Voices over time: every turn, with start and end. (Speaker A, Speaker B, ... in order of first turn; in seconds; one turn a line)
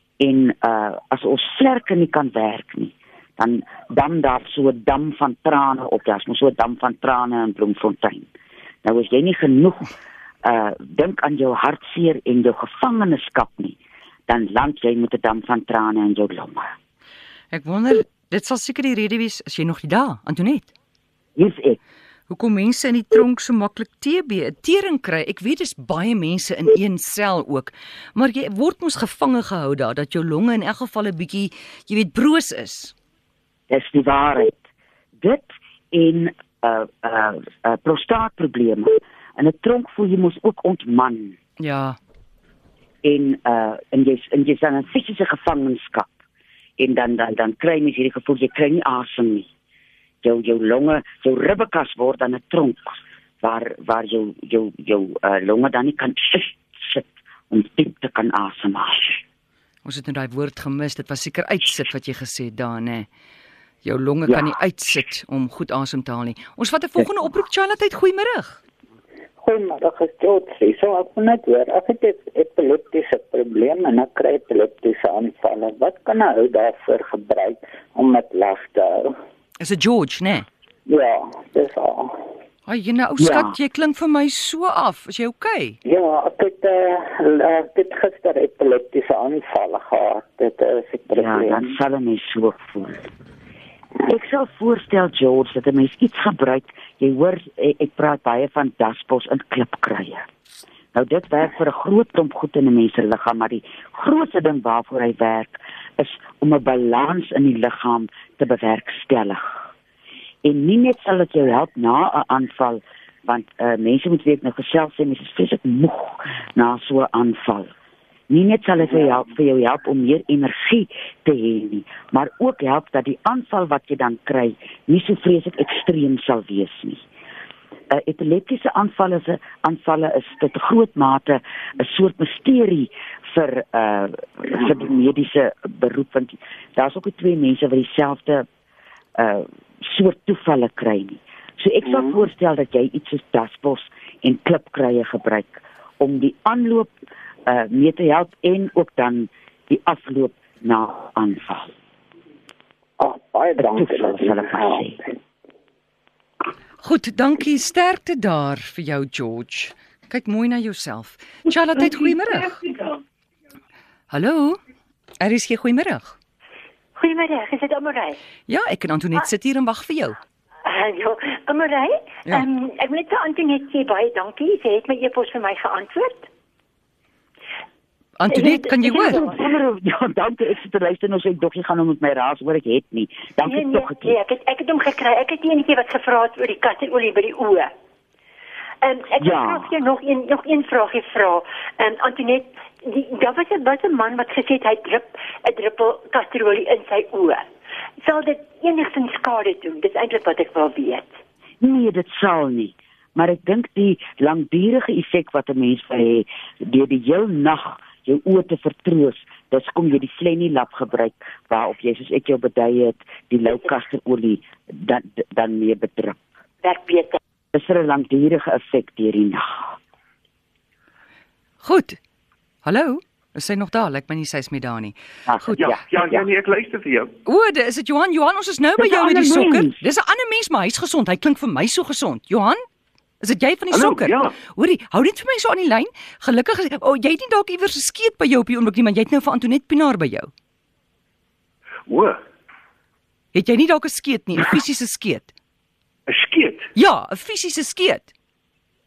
Speaker A: 0.2-8.3
Speaker A: 8.8-9.9
Speaker A: 10.4-13.8
Speaker A: 14.3-16.7
Speaker B: 17.5-20.7
Speaker A: 21.4-21.8
Speaker B: 22.3-32.9
Speaker A: 33.7-34.6
Speaker A: 35.2-41.4
Speaker B: 41.6-42.0
Speaker A: 43.0-46.1
Speaker A: 46.8-49.5
Speaker A: 50.2-59.2
Speaker B: 59.8-63.1
Speaker B: 63.8-68.6
Speaker C: 69.4-79.2
Speaker B: 79.6-80.5
Speaker C: 80.8-82.2
Speaker B: 82.7-85.8
Speaker A: 83.2-83.5
Speaker C: 85.8-91.6
Speaker A: 91.1-93.0
Speaker A: 94.0-100.2
Speaker A: 100.9-109.7
Speaker A: 110.4-117.7
Speaker A: 118.3-127.0
Speaker A: 127.9-138.4
Speaker A: 139.2-146.9
Speaker A: 147.4-151.7
Speaker C: 153.0-154.8
Speaker A: 153.6-155.0
Speaker B: 156.8-162.6
Speaker B: 164.1-164.6
Speaker B: 165.2-166.2
Speaker D: 166.9-168.2
Speaker B: 168.5-170.2
Speaker D: 170.6-176.3
Speaker B: 178.2-179.2
Speaker D: 178.3-179.3
Speaker A: 179.0-184.1
Speaker D: 183.4-187.7
Speaker D: 188.8-197.4
Speaker A: 189.2-189.7
Speaker D: 198.0-201.1
Speaker A: 201.6-216.2
Speaker D: 216.6-217.2
Speaker A: 217.5-219.8
Speaker B: 221.6-222.0
Speaker B: 222.6-225.7
Speaker A: 225.3-225.8
Speaker E: 225.6-227.1
Speaker B: 227.2-232.6
Speaker A: 228.8-229.8
Speaker B: 233.2-240.3
Speaker E: 233.7-234.3
Speaker E: 241.9-242.2
Speaker B: 243.3-245.3
Speaker E: 246.1-246.7
Speaker B: 246.7-248.1